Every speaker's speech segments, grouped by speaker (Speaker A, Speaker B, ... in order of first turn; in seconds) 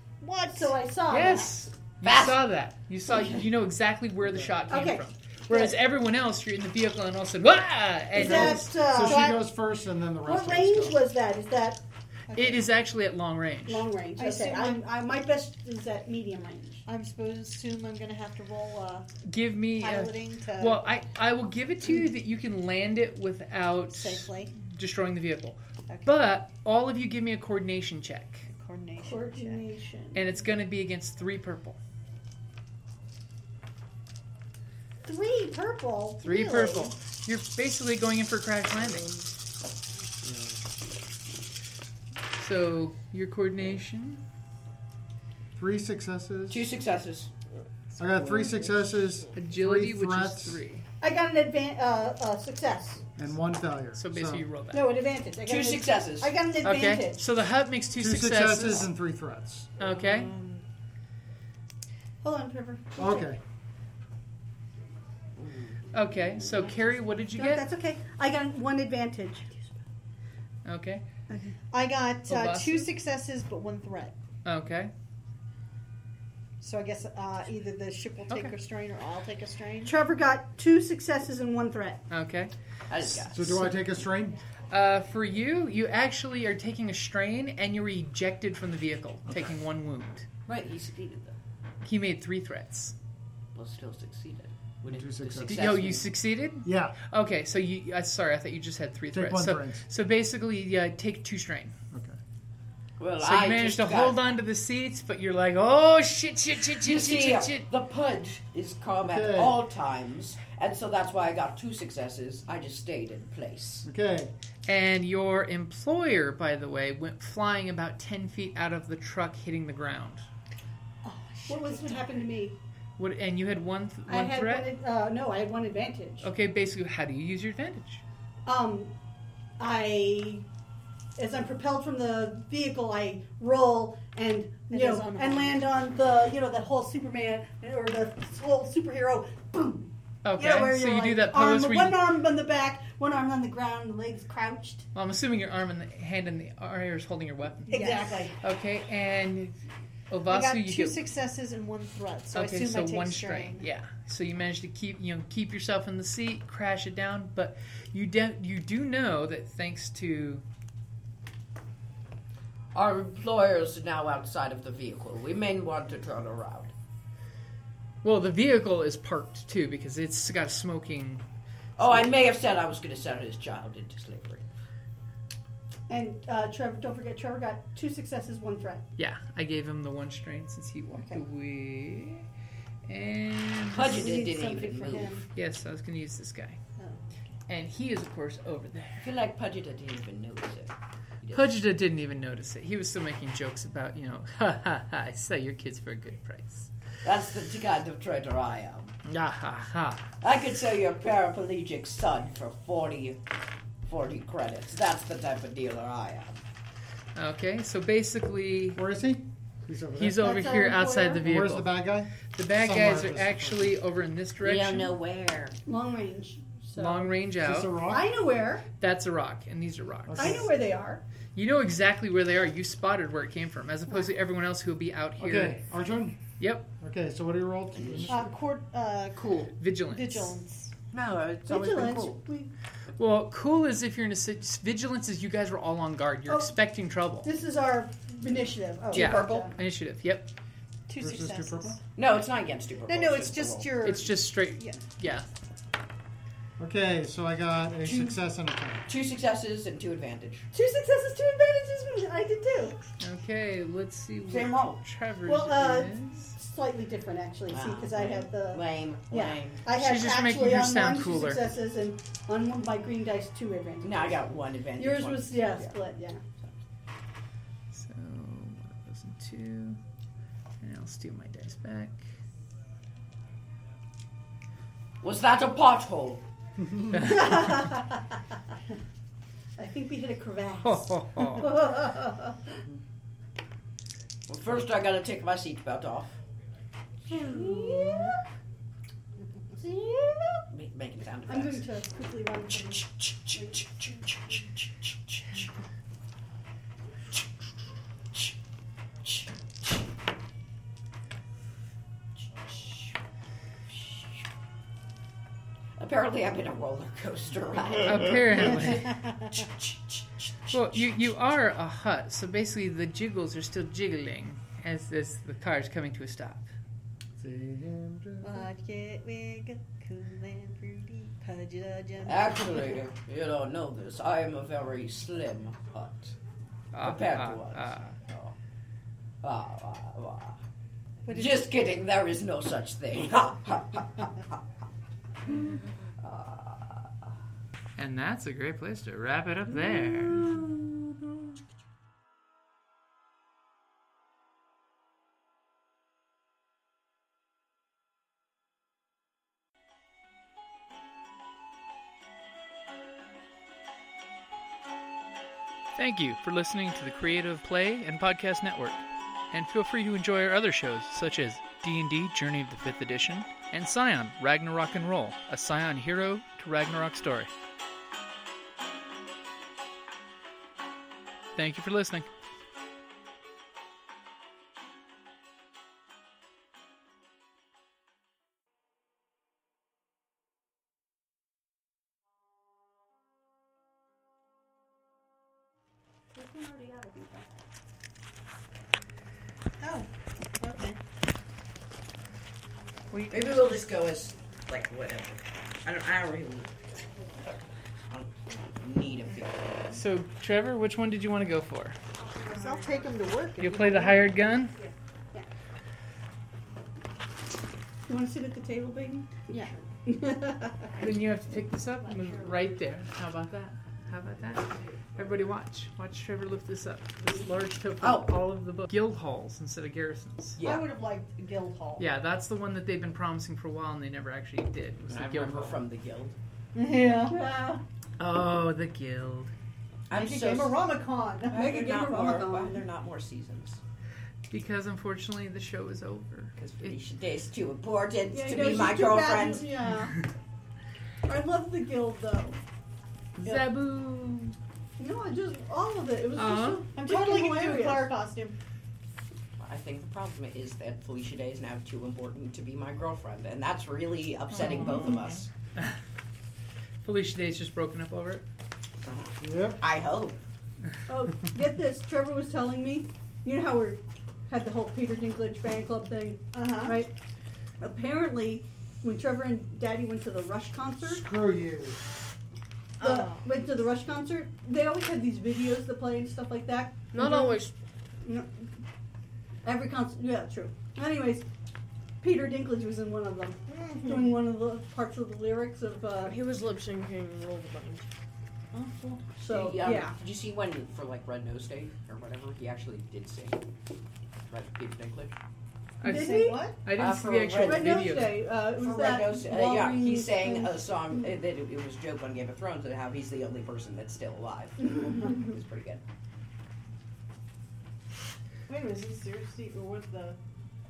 Speaker A: 0.2-0.7, 8.9-9.4, 12.3-12.6, 14.2-14.8, 16.9-19.1, 19.8-20.8, 23.9-24.5, 28.5-29.6, 71.7-74.1, 76.6-80.0, 121.0-122.0, 134.7-135.7, 147.7-148.3, 150.3-153.7, 184.4-184.9, 210.2-211.2, 228.1-230.7, 240.9-241.8, 242.9-244.8, 318.2-322.7, 331.1-331.4, 389.6-389.9, 390.4-390.8, 402.3-404.1, 426.5-427.1, 429.9-431.5, 446.8-448.4, 466.3-466.8, 483.5-484.2, 488.5-489.0, 495.8-496.5, 508.5-510.2
Speaker B: 0.5-1.6, 4.7-5.8, 8.1-9.4, 10.2-11.8, 13.7-16.8, 29.0-30.2, 35.0-36.9, 51.0-53.1, 54.7-57.3, 62.2-63.3, 67.3-69.5, 71.3-71.5, 79.8-82.0, 121.5-122.6, 124.1-126.3, 128.4-128.9, 129.6-130.4, 131.2-144.9, 147.7-148.3, 175.9-178.8, 180.9-181.2, 183.9-185.2, 215.7-217.2, 217.8-218.7, 220.2-221.0, 231.5-232.5, 236.3-236.5, 237.2-239.5, 250.5-252.9, 255.2-264.2, 264.8-266.5, 276.9-278.0, 279.6-282.6, 287.1-288.2, 289.5-290.4, 291.3-292.9, 386.1-387.3, 407.9-410.7, 420.4-421.8, 426.7-427.6, 431.3-432.6, 438.1-439.9, 441.1-442.4, 444.8-447.9, 460.9-466.9, 467.6-471.0, 472.8-477.4, 478.0-478.3, 479.4-481.3, 482.0-486.2, 489.1-489.9, 495.8-496.5, 497.4-500.7, 504.7-505.1
Speaker C: 1.1-8.8, 12.3-13.9, 19.2-28.5, 30.1-31.8, 36.2-39.1, 42.4-44.2, 49.3-50.8, 53.9-54.9, 56.6-58.9, 59.8-60.3, 65.9-67.6, 70.7-71.0, 72.3-72.9, 74.4-74.9, 82.1-82.5, 84.7-90.3, 91.8-92.9, 95.5-101.8, 103.2-107.7, 114.7-120.2, 123.0-124.7, 126.2-128.0, 140.2-142.1, 144.9-149.6, 150.1-151.0, 152.3-160.4, 168.0-171.2, 179.0-182.2, 182.8-184.1, 185.3-186.6, 187.5-189.1, 191.3-196.7, 199.0-200.1, 207.2-208.8, 209.9-214.9, 216.8-217.7, 218.8-220.4, 221.3-225.6, 226.4-226.7, 229.6-230.4, 233.0-237.3, 238.9-240.3, 243.8-245.3, 253.0-256.3, 259.7-261.4, 267.7-269.8, 270.6-272.0, 276.9-277.6, 280.6-281.5, 307.8-308.9, 310.5-316.5, 326.7-327.9, 337.8-340.4, 355.8-367.3, 371.4-372.1, 392.9-393.4, 399.7-401.8, 403.4-404.5, 410.8-420.4, 421.8-425.6, 428.0-429.3, 434.3-436.8, 443.2-444.3, 446.1-446.6, 454.3-455.8, 456.8-458.2, 495.8-498.2
Speaker D: 2.0-2.4, 46.5-47.3, 55.4-56.4, 65.4-65.8, 82.9-83.7, 90.5-91.4, 93.5-96.1, 103.0-104.3, 106.8-113.9, 162.7-166.7, 171.8-174.4, 183.7-185.2, 189.0-191.6, 197.0-198.9, 200.2-203.2, 203.8-206.4, 214.4-215.6, 227.7-228.2, 229.2-229.5, 230.9-232.2, 241.9-243.8, 247.8-248.2, 248.9-250.5, 254.3-254.8, 257.5-259.6, 263.8-265.8, 275.0-276.2, 284.3-286.1, 290.5-291.6, 292.5-295.4, 302.4-302.9, 303.7-304.2, 305.8-311.0, 322.0-326.1, 326.8-328.3, 329.2-330.4, 331.1-334.3, 336.0-336.9, 339.5-340.6, 393.1-396.6, 397.9-399.8, 417.0-418.1, 420.4-420.7, 424.9-426.2, 429.9-430.6, 431.3-433.6, 436.4-439.5, 449.4-455.3, 458.8-460.2, 489.2-493.4, 494.3-495.1, 496.8-505.8
Speaker E: 8.2-11.0, 45.5-46.7, 48.0-50.6, 53.1-54.5, 58.0-59.7, 63.0-63.4, 83.1-84.4, 94.8-95.7, 96.6-97.0, 99.1-99.8, 101.9-102.2, 109.0-109.6, 113.8-114.3, 208.7-210.6, 211.2-213.7, 217.3-218.1, 220.1-220.5, 225.2-226.2, 226.8-228.3, 241.0-241.8, 246.6-248.9, 317.2-318.5, 459.2-459.6, 470.8-471.8
Speaker F: 472.8-473.2, 476.9-477.5, 486.0-487.9